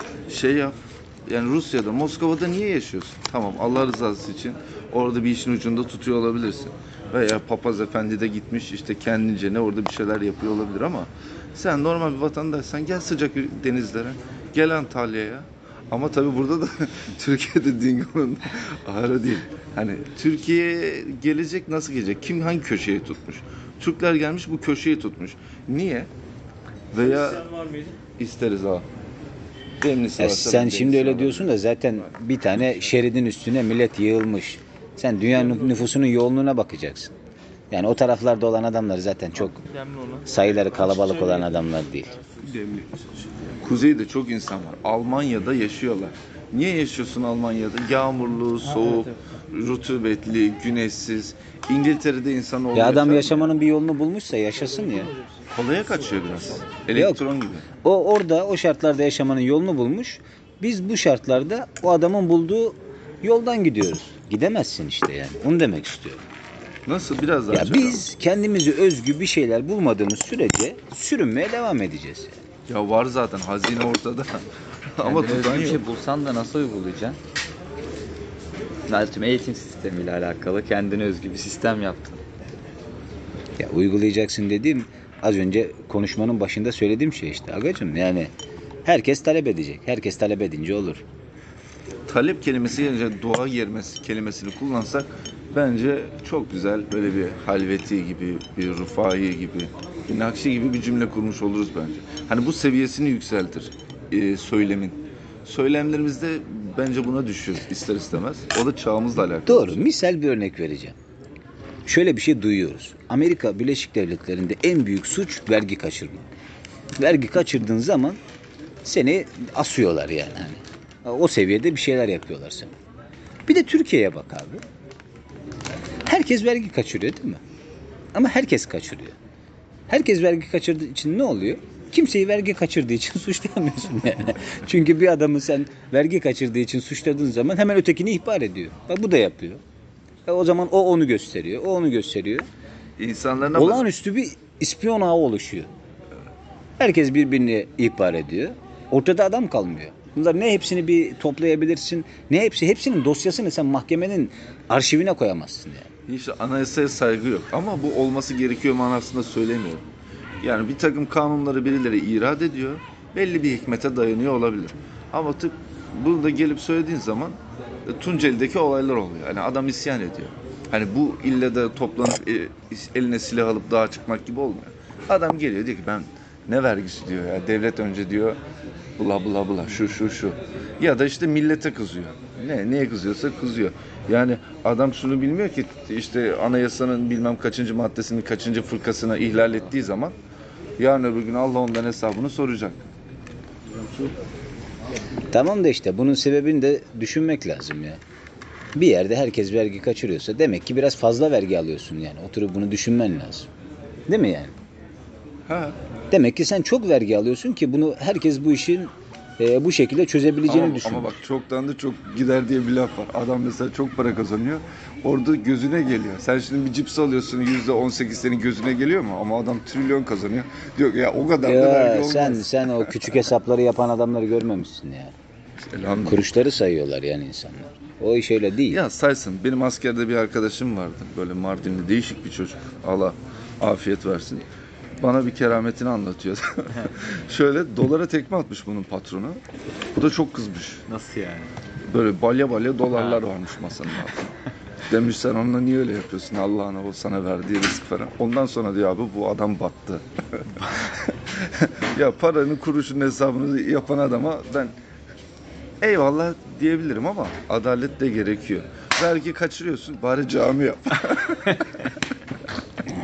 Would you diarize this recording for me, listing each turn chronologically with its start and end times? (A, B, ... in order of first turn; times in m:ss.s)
0:00.3-0:26.1 A
0:26.9-0:28.9 A
0:29.8-0:31.5 A
0:30.2-0:37.1 B
0:37.7-0:42.2 B
0:42.4-0:53.5 A
0:52.7-0:55.2 B
0:55.5-0:57.6 A
0:56.9-0:57.2 B
0:57.8-1:06.3 B
1:06.9-1:08.0 A
1:07.5-1:12.4 B
1:12.7-1:15.8 A
1:15.0-1:17.2 C
1:18.9-1:22.2 C
1:23.6-1:28.3 B
1:28.8-1:31.0 B
1:32.1-1:49.8 A
1:49.5-1:51.0 B
1:51.9-1:56.2 B
1:57.0-1:58.2 B
1:58.8-2:02.7 B
2:03.5-2:04.6 B
2:06.0-2:07.4 B
2:08.1-2:09.2 B
2:09.9-2:19.6 B
2:20.3-2:22.5 B
2:23.0-2:23.9 A
2:23.6-2:25.7 B
2:26.8-2:35.9 B
2:36.1-2:39.8 A
2:40.4-2:58.4 A
2:59.0-3:10.2 A
3:10.8-3:12.8 A
3:15.3-3:18.0 B
3:18.8-3:23.5 B
3:24.1-3:24.6 B
3:25.5-3:25.8 A
3:26.1-3:31.2 B
3:30.5-3:43.1 A
3:41.4-3:45.1 B
3:45.6-3:46.3 A
3:45.8-3:48.8 B
3:48.7-3:54.4 A
3:55.0-3:59.4 A
4:00.0-4:00.8 A
4:00.9-4:01.5 C
4:01.8-4:04.4 A
4:04.9-4:14.8 A
4:15.8-4:22.0 A